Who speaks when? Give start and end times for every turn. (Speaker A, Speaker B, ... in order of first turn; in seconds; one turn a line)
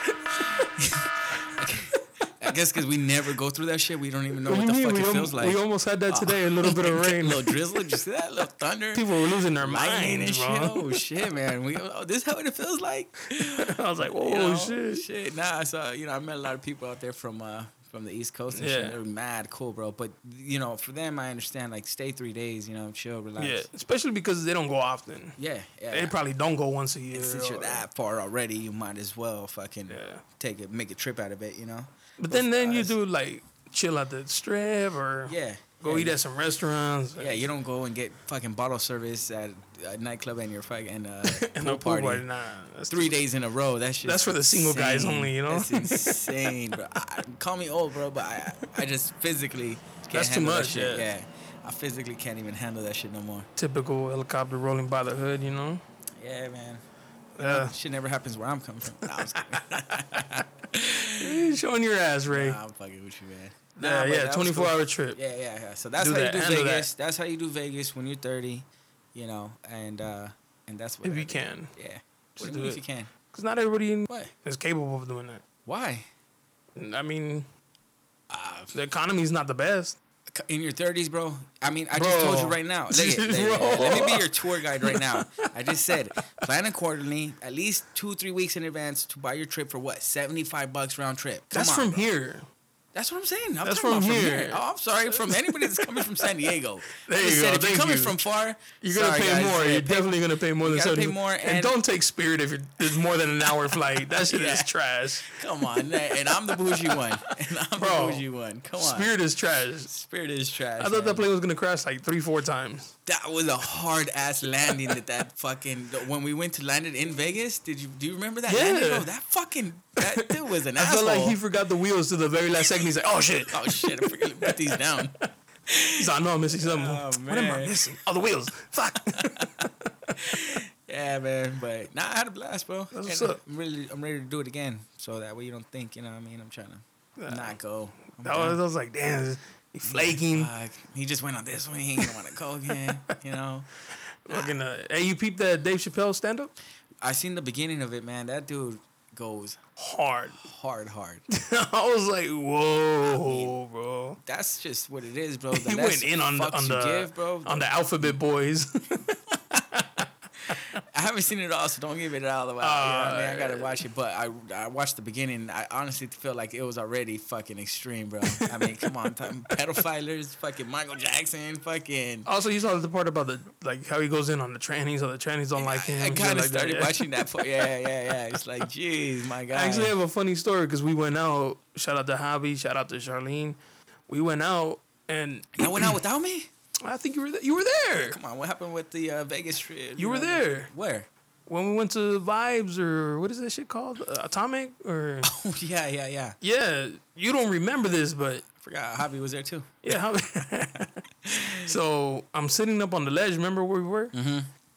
Speaker A: 0.4-23.7
Speaker B: 4.4-7.6
Speaker B: 8.9-11.0
Speaker B: 13.4-15.0
Speaker B: 18.5-19.0
Speaker B: 23.4-25.4
Speaker A: 25.4-26.1
Speaker B: 25.9-27.8
Speaker A: 27.1-33.0
Speaker B: 29.9-30.2
Speaker B: 32.2-37.4
Speaker A: 35.3-36.2
Speaker A: 37.2-42.2
Speaker B: 41.2-43.2
Speaker A: 42.9-53.5
Speaker B: 44.0-46.7
Speaker B: 50.1-51.0
Speaker B: 53.6-55.8
Speaker A: 56.2-56.8
Speaker B: 57.4-57.7
Speaker A: 57.4-61.6
Speaker B: 59.1-60.2
Speaker B: 61.2-62.6
Speaker A: 62.3-73.1
Speaker B: 63.8-65.2
Speaker B: 66.0-66.9
Speaker B: 71.0-71.7
Speaker B: 72.4-75.4
Speaker A: 75.7-76.0
Speaker B: 76.8-77.5
Speaker A: 78.3-78.7
Speaker B: 78.7-80.0
Speaker A: 80.3-92.0
Speaker B: 81.9-85.5
Speaker B: 91.5-92.5
Speaker A: 92.9-101.8
Speaker B: 93.6-94.6
Speaker B: 95.1-96.0
Speaker B: 96.9-98.2
Speaker B: 98.8-108.2
Speaker A: 103.5-104.7
Speaker A: 105.2-109.1
Speaker B: 108.8-109.9
Speaker A: 109.9-111.2
Speaker B: 110.8-112.9
Speaker A: 113.0-121.4
Speaker B: 118.5-119.1
Speaker B: 120.0-124.8
Speaker A: 123.5-125.2
Speaker A: 125.7-128.0
Speaker B: 126.0-129.7
Speaker A: 129.2-129.6
Speaker A: 130.2-138.6
Speaker B: 132.9-133.4
Speaker B: 137.2-137.5
Speaker B: 138.2-140.5
Speaker A: 139.8-143.7
Speaker B: 144.3-146.5
Speaker A: 147.0-149.6
Speaker B: 149.8-150.4
Speaker A: 150.4-151.2
Speaker B: 151.3-154.2
Speaker A: 153.1-153.6
Speaker A: 154.2-158.2
Speaker B: 155.5-160.6
Speaker A: 160.9-172.3
Speaker B: 162.6-163.8
Speaker B: 168.3-168.6
Speaker B: 172.2-177.6
Speaker A: 175.6-179.9
Speaker B: 179.5-183.6
Speaker B: 184.1-185.9
Speaker A: 185.5-186.5
Speaker B: 186.8-188.2
Speaker A: 187.9-191.1
Speaker B: 190.0-190.7
Speaker B: 191.5-195.3
Speaker A: 195.2-196.4
Speaker B: 196.4-198.4
Speaker A: 198.6-199.8
Speaker B: 199.8-201.0
Speaker A: 201.2-201.7
Speaker B: 201.6-204.1
Speaker A: 204.1-204.5